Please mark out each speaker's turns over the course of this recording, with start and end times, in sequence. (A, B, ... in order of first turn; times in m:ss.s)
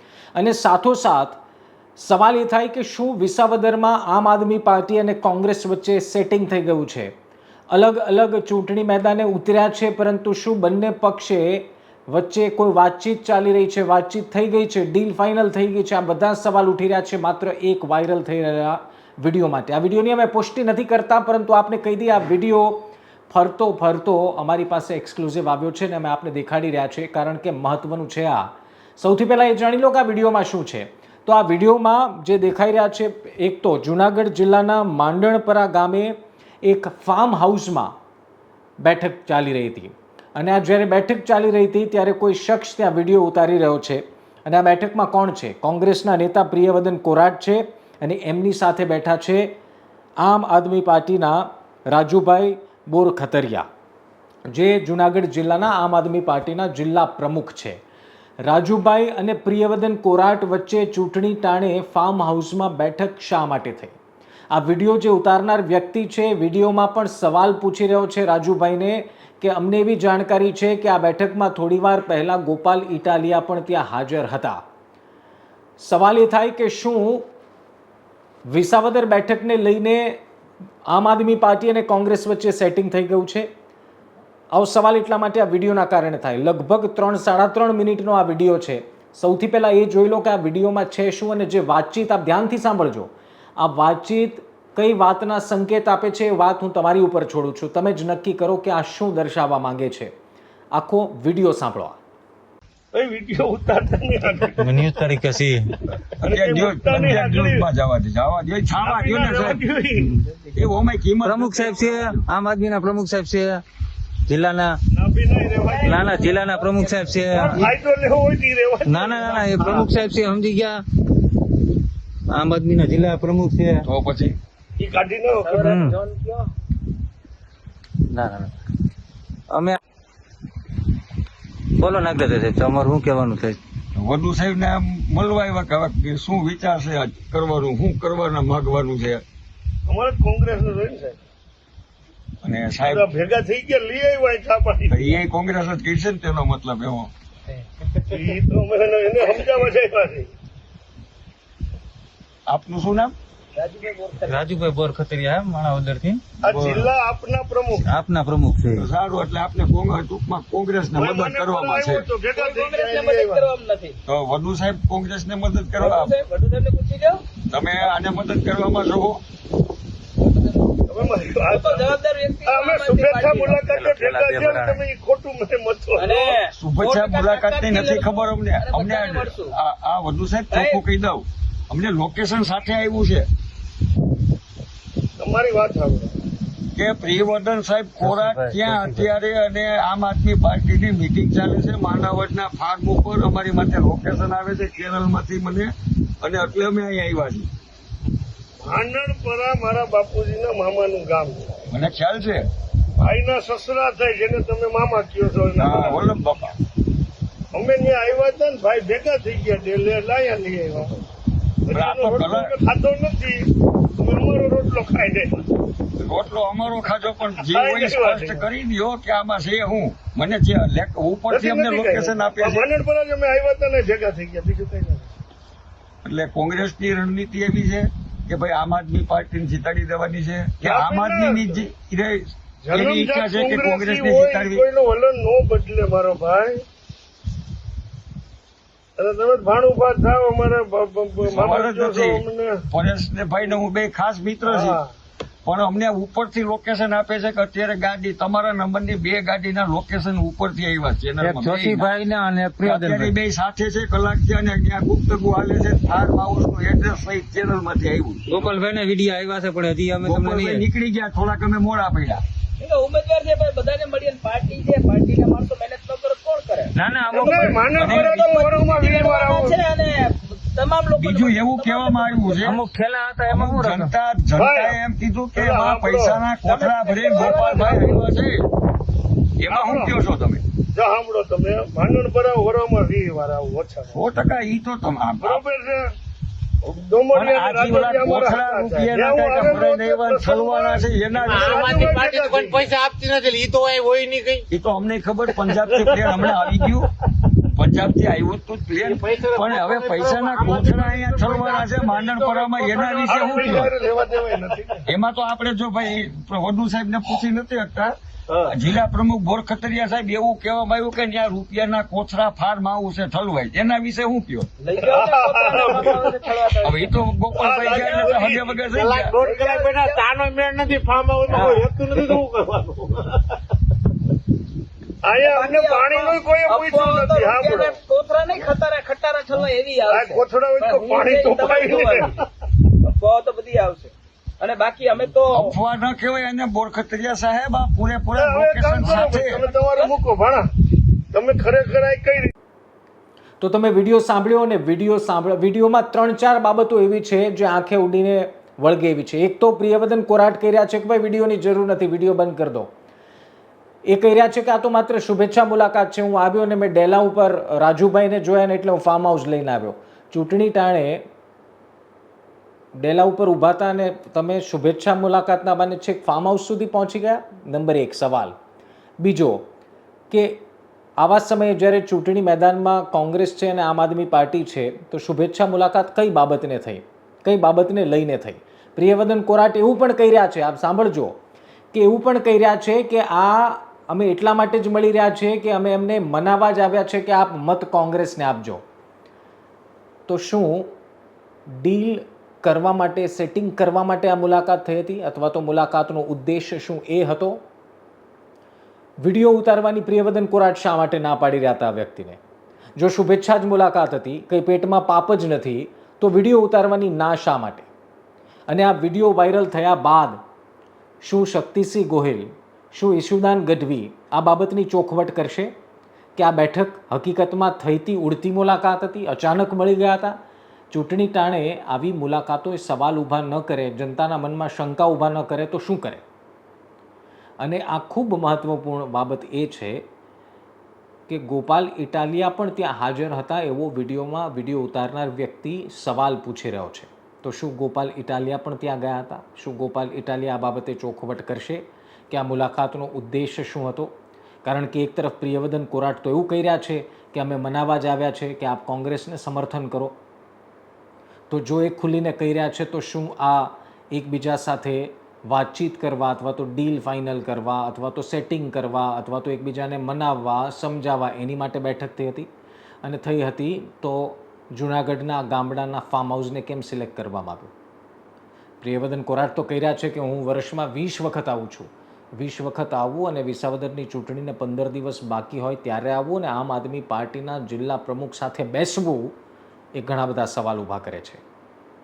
0:00.3-0:01.4 A
0:02.0-0:07.1 A
0:07.7-0:37.9 A
0:38.8-0:49.5 A
0:50.2-0:53.7 A
0:54.5-0:57.8 A
0:58.4-1:04.0 A
1:04.5-1:14.6 A
1:15.8-1:17.3 A
1:18.5-1:20.2 A
1:20.9-1:23.5 A
1:24.5-1:40.1 A
1:40.7-1:42.0 A
1:42.9-1:44.9 B
1:44.6-1:45.7 C
1:46.2-1:47.7 B
1:46.2-1:49.6 D
1:48.8-1:50.2 B
1:50.0-1:50.3 C
1:50.5-1:52.2 D
1:51.2-1:53.6 C
1:54.3-1:54.8 C
1:54.9-1:56.1 B
1:55.6-1:57.6 E
1:55.8-1:57.7 C
1:57.3-1:59.6 B
1:58.8-2:00.8 C
2:02.3-2:03.8 C
2:03.8-2:04.4 D
2:04.8-2:05.8 B
2:05.4-2:06.5 E
2:05.6-2:06.0 C
2:08.1-2:08.5 C
2:09.5-2:09.8 C
2:11.8-2:13.6 C
2:14.0-2:19.2 D
2:19.9-2:21.2 B
2:22.4-2:23.0 D
2:22.8-2:25.2 B
2:24.9-2:27.1 D
2:28.1-2:30.3 B
2:32.5-2:33.1 D
2:33.5-2:34.5 E
2:34.3-2:36.8 C
2:36.4-2:37.9 B
2:37.8-2:38.8 C
2:38.8-2:42.0 D
2:41.0-2:43.5 B
2:42.3-2:44.0 E
2:44.0-2:46.1 D
2:45.8-2:47.2 E
2:47.5-2:49.2 D
2:50.2-2:53.7 E
2:50.9-2:51.9 B
2:52.4-2:56.4 B
2:53.7-2:54.8 C
2:56.0-2:59.5 E
2:56.5-3:03.3 D
3:00.5-3:00.8 E
3:05.2-3:06.2 B
3:06.7-3:17.5 D
3:08.0-3:09.1 C
3:18.6-3:21.6 B
3:21.7-3:22.5 D
3:23.0-3:26.1 B
3:25.6-3:26.5 D
3:27.5-3:31.0 B
3:31.6-3:35.5 B
3:31.7-3:32.5 D
3:36.0-3:42.7 D
3:37.5-3:38.4 B
3:41.3-3:45.1 B
3:46.0-3:54.6 D
3:50.6-3:51.6 B
3:52.6-3:56.6 B
3:59.0-4:02.6 B
4:01.2-4:04.8 D
4:04.5-4:04.9 B
4:05.4-4:11.9 D
4:11.2-4:13.1 C
4:12.6-4:18.4 D
4:18.3-4:20.6 C
4:20.0-4:22.2 D
4:22.6-4:32.5 E
4:26.7-4:27.9 C
4:27.1-4:29.6 B
4:27.7-4:28.3 D
4:31.0-4:32.6 D
4:32.4-4:33.9 C
4:33.3-4:38.5 D
4:34.4-4:34.8 B
4:35.3-4:36.2 B
4:36.4-4:38.0 E
4:37.0-4:37.8 B
4:39.4-4:40.4 D
4:39.5-4:40.0 B
4:40.7-4:44.0 B
4:43.9-4:45.4 D
4:45.2-4:45.9 B
4:46.6-4:52.7 B
4:47.1-4:52.0 D
4:51.2-4:54.4 F
4:54.5-4:56.9 D
4:57.4-5:03.7 D
4:58.8-5:03.6 F
5:02.6-5:04.9 B
5:04.9-5:07.9 D
5:08.4-5:14.5 D
5:14.6-5:18.2 E
5:14.8-5:16.2 B
5:16.6-5:19.2 D
5:17.4-5:18.7 B
5:18.7-5:23.2 F
5:19.2-5:20.1 E
5:21.3-5:22.1 E
5:25.0-5:27.8 B
5:25.2-5:32.2 E
5:29.9-5:32.2 B
5:32.8-5:35.5 E
5:35.3-5:39.4 D
5:38.2-5:40.5 B
5:38.8-5:39.9 E
5:41.1-5:42.3 B
5:43.4-5:52.7 A
5:53.9-6:01.0 A
6:02.8-6:08.4 A
6:09.0-6:09.4 A
6:10.1-6:10.4 A
6:11.0-6:21.2 A
6:21.7-6:28.6 A
6:30.1-6:30.7 A
6:31.5-6:37.4 A
6:39.0-6:42.2 A
6:42.8-6:47.7 A
6:48.5-6:50.2 A
6:51.0-6:55.5 A
6:56.2-7:00.2 A
7:00.7-7:06.0 A
7:07.4-7:09.8 A
7:11.1-7:23.9 A
7:24.4-7:30.0 A
7:31.3-7:42.3 A
7:42.8-7:47.5 A
7:48.6-7:59.1 A
7:59.7-8:01.2 A